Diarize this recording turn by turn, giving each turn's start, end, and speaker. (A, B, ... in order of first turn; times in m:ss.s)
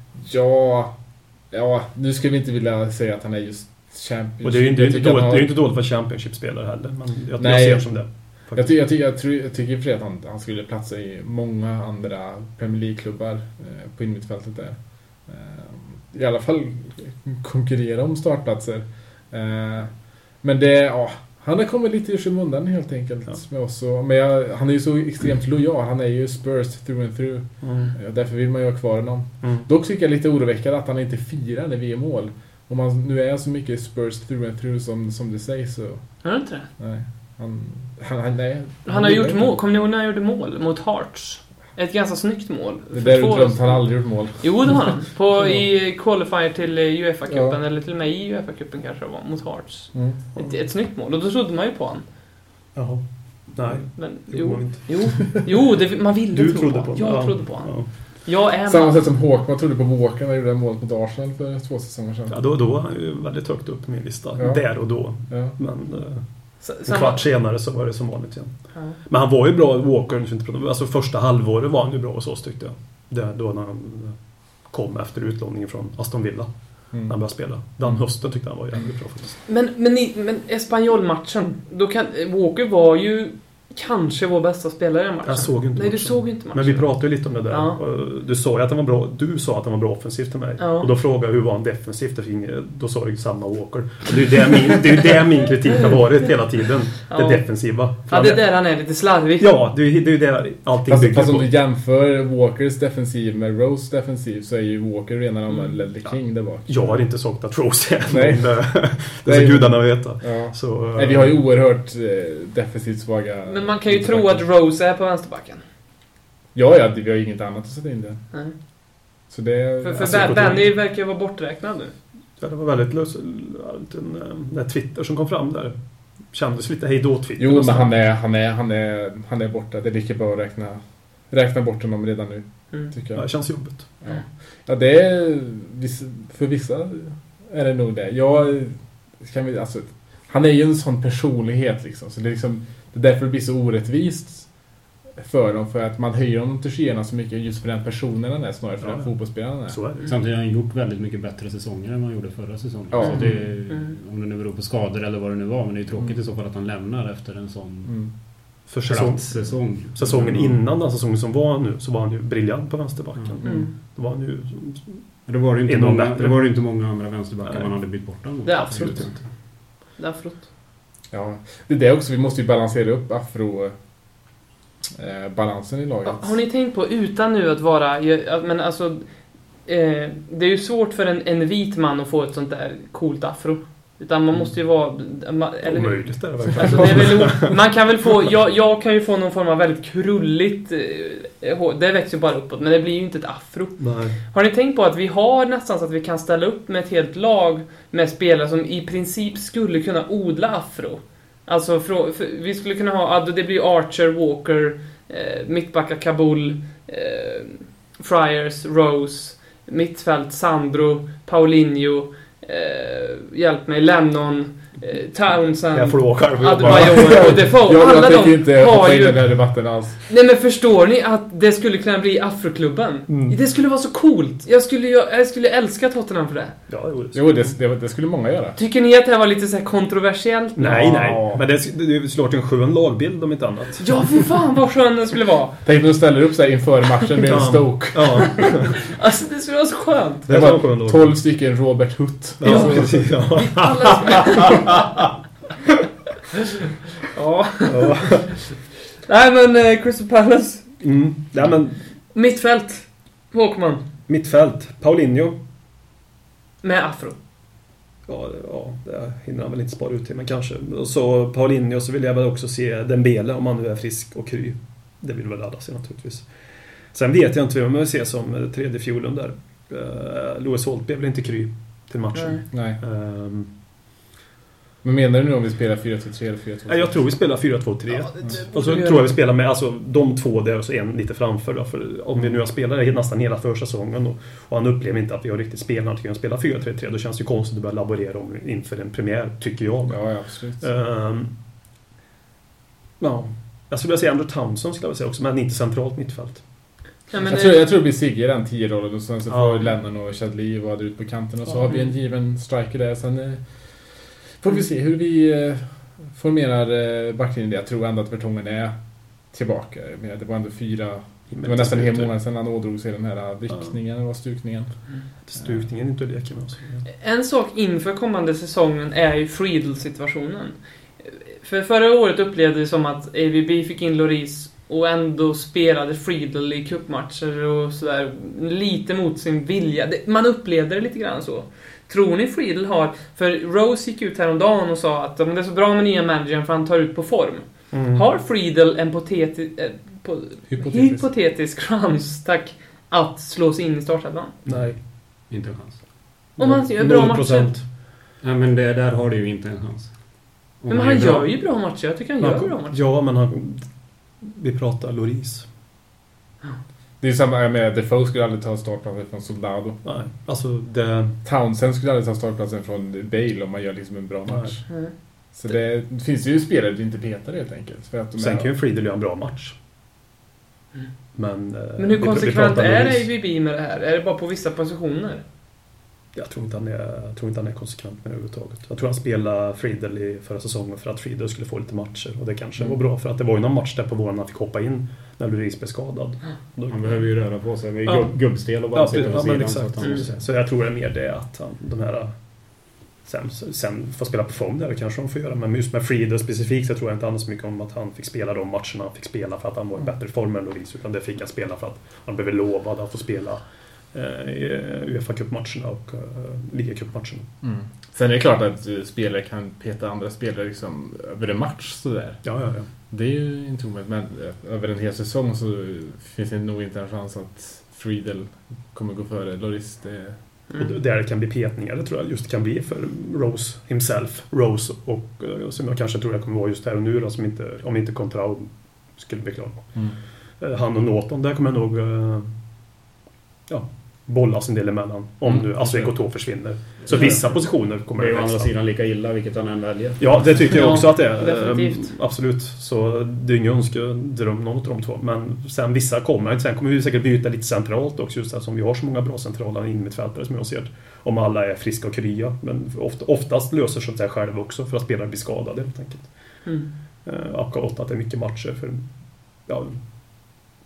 0:00.1-0:05.5 A
0:04.4-0:08.7 B
0:07.4-0:39.6 A
0:27.6-0:27.9 B
0:29.4-0:29.7 B
0:36.2-0:36.7 C
0:38.8-0:52.0 C
0:42.9-0:45.6 A
0:47.3-0:47.6 A
0:49.9-0:50.2 A
0:52.7-0:55.1 B
0:53.9-0:59.1 C
0:56.3-0:57.9 B
0:58.6-1:02.4 A
1:02.3-1:19.4 B
1:04.4-1:05.6 A
1:06.6-1:07.2 C
1:16.9-1:18.9 A
1:19.4-1:27.8 C
1:25.2-1:38.7 B
1:30.6-1:30.9 C
1:37.1-1:39.5 C
1:39.4-1:41.5 B
1:40.9-1:46.9 A
1:46.0-1:51.4 B
1:48.1-1:54.5 A
1:53.5-1:55.6 C
1:56.5-1:58.2 A
1:59.3-2:00.6 A
1:59.8-2:01.9 C
2:00.0-2:00.7 B
2:02.4-2:07.9 B
2:07.4-2:29.8 A
2:13.1-2:13.9 B
2:28.8-2:30.1 B
2:30.0-2:40.6 D
2:32.9-2:33.6 A
2:33.7-2:33.9 C
2:35.9-2:36.2 A
2:37.8-2:38.2 A
2:38.7-2:46.7 B
2:43.4-2:43.7 A
2:43.4-2:43.7 C
2:45.2-2:49.2 D
2:47.4-2:49.2 B
2:48.4-2:50.5 C
2:51.1-2:53.9 A
2:54.9-2:56.4 A
2:56.0-3:46.6 C
3:05.6-3:07.7 B
3:13.8-3:14.2 B
3:35.7-3:37.5 B
3:36.6-3:40.0 A
3:43.1-3:43.4 B
3:46.7-3:47.5 B
3:47.1-3:48.6 A
3:48.6-3:50.8 C
3:50.6-3:54.2 B
3:50.6-3:51.4 A
3:53.8-3:55.6 C
3:55.6-3:58.6 A
3:57.3-3:58.8 B
3:58.7-4:00.3 C
4:00.3-4:01.2 B
4:00.3-4:03.4 A
4:02.4-4:03.8 B
4:02.4-4:04.7 C
4:07.1-4:08.0 C
4:07.6-4:08.4 B
4:09.0-4:10.8 C
4:10.8-4:12.0 B
4:12.1-4:13.8 C
4:14.1-4:15.4 B
4:16.6-4:17.2 C
4:18.0-4:33.5 B
4:32.1-4:32.4 C
4:32.5-4:32.8 A
4:34.8-4:37.3 A
4:36.7-4:51.3 B
4:37.9-4:39.1 C
4:49.9-4:50.7 A
4:53.0-4:56.5 B
4:57.1-4:57.7 C
4:57.2-5:15.6 A
4:59.3-4:59.7 B
5:11.3-5:12.2 B
5:15.2-5:16.9 B
5:17.0-5:44.3 C
5:37.7-5:38.0 B
5:40.5-5:41.0 A
5:44.4-5:44.8 B
5:44.5-5:46.0 D
5:46.4-5:47.5 C
5:46.4-5:47.7 B
5:48.2-5:51.2 D
5:50.7-5:52.8 C
5:52.2-5:55.5 B
5:57.0-5:59.8 A
5:59.8-6:01.2 B
6:01.2-6:08.5 A
6:04.3-6:04.6 B
6:04.7-6:05.3 C
6:08.2-6:09.6 B
6:11.1-6:13.1 B
6:11.8-6:15.2 C
6:16.1-6:27.2 B
6:26.7-6:30.2 D
6:27.8-6:47.2 B
6:47.4-7:00.5 A
6:52.2-6:52.7 B
7:00.5-7:12.3 B
7:13.5-7:18.5 B
7:15.2-7:17.2 A
7:16.8-7:20.7 D
7:20.0-7:39.8 B
7:20.5-7:21.9 C
7:36.4-7:36.7 C